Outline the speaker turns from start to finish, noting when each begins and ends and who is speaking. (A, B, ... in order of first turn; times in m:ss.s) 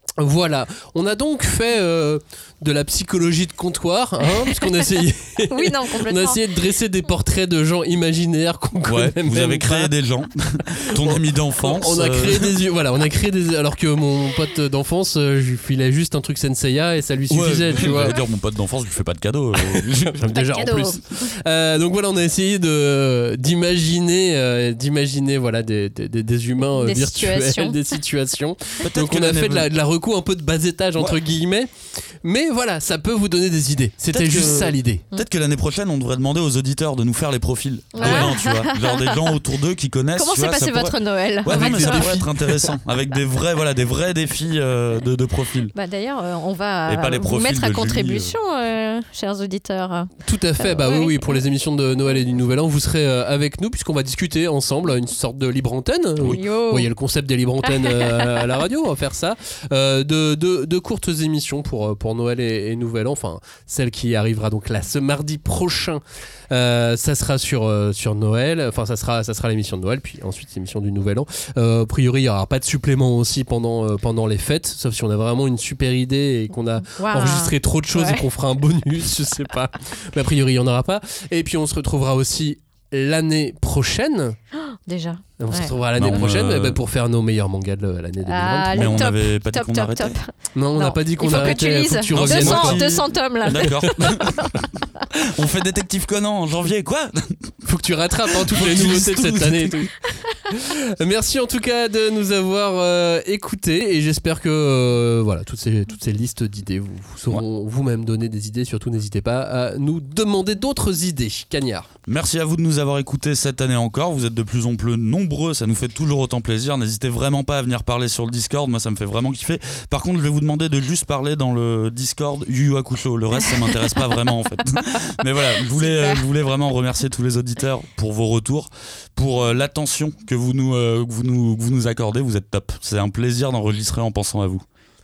0:00.2-0:09.9 A
0:05.5-0:06.4 B
0:08.9-0:12.5 C
0:11.0-0:18.1 A
0:17.3-0:20.2 C
0:20.1-0:31.7 A
0:20.3-0:21.3 B
0:26.6-0:28.0 B
0:28.8-0:29.7 C
0:32.2-0:35.0 A
0:34.1-0:45.7 C
0:38.0-0:39.4 B
0:38.0-0:38.3 A
0:40.2-0:42.2 B
0:41.5-0:42.6 A
0:45.7-0:51.4 B
0:46.9-0:48.3 C
0:50.2-1:24.4 A
0:56.2-0:56.9 B
0:57.6-0:58.4 B
1:16.9-1:18.2 B
1:24.6-1:25.7 B
1:25.4-1:29.0 A
1:26.0-1:26.8 C
1:28.2-1:34.5 B
1:28.7-1:30.2 C
1:30.5-1:32.8 A
1:31.3-1:34.6 C
1:33.5-1:33.9 A
1:35.2-1:37.5 C
1:37.6-1:40.0 A
1:38.4-1:39.9 C
1:40.5-1:51.9 A
1:52.1-2:14.6 C
2:05.7-2:06.2 B